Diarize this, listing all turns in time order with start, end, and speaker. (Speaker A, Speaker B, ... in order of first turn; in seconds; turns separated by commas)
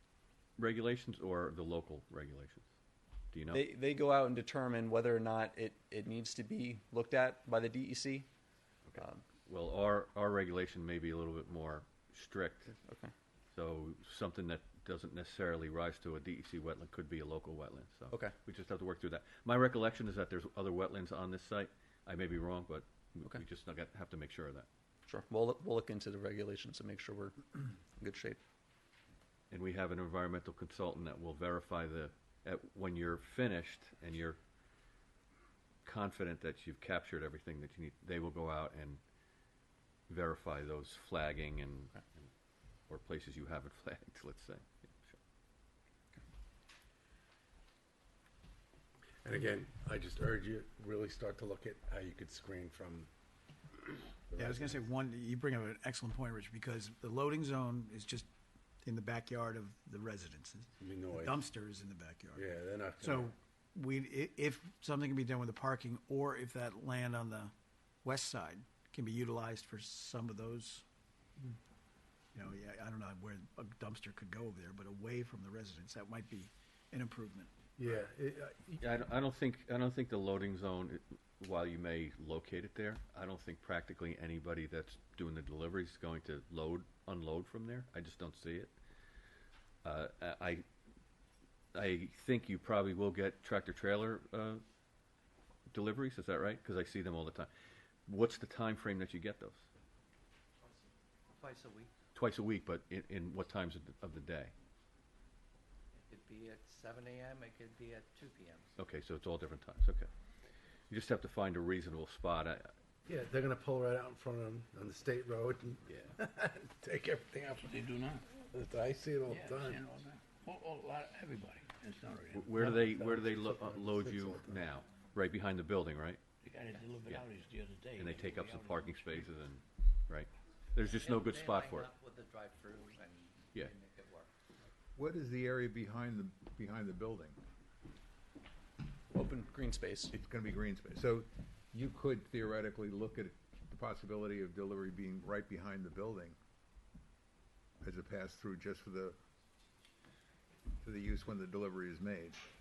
Speaker A: 0.6-2.7, Speaker A: 3.3-3.6, Speaker B: 3.5-8.3, Speaker A: 8.9-12.7, Speaker B: 9.0-9.2, Speaker B: 12.7-13.1, Speaker A: 13.5-24.7, Speaker B: 25.1-28.4, Speaker A: 29.5-34.4, Speaker A: 35.9-39.0, Speaker A: 40.1-42.3, Speaker A: 42.9-45.2, Speaker C: 49.2-53.1, Speaker C: 54.3-54.8, Speaker D: 54.4-58.3, Speaker D: 58.8-62.5, Speaker C: 60.8-61.5, Speaker C: 62.3-63.3, Speaker D: 63.0-67.5, Speaker D: 68.0-70.8, Speaker D: 72.3-77.5, Speaker C: 77.8-78.8, Speaker A: 78.8-88.8, Speaker A: 89.8-90.7, Speaker A: 91.7-94.6, Speaker A: 95.7-97.5, Speaker A: 98.1-99.7, Speaker E: 101.4-101.9, Speaker A: 102.1-104.5, Speaker E: 106.1-108.5, Speaker A: 108.8-110.1, Speaker A: 110.9-112.7, Speaker C: 113.1-119.9, Speaker F: 117.6-118.2, Speaker F: 119.3-122.6, Speaker A: 122.3-126.2, Speaker C: 122.5-124.7, Speaker F: 126.4-129.1, Speaker A: 127.9-131.9, Speaker E: 131.0-134.2, Speaker G: 134.9-137.4, Speaker B: 139.1-140.1, Speaker G: 140.1-146.4, Speaker G: 147.8-149.2, Speaker G: 150.8-152.4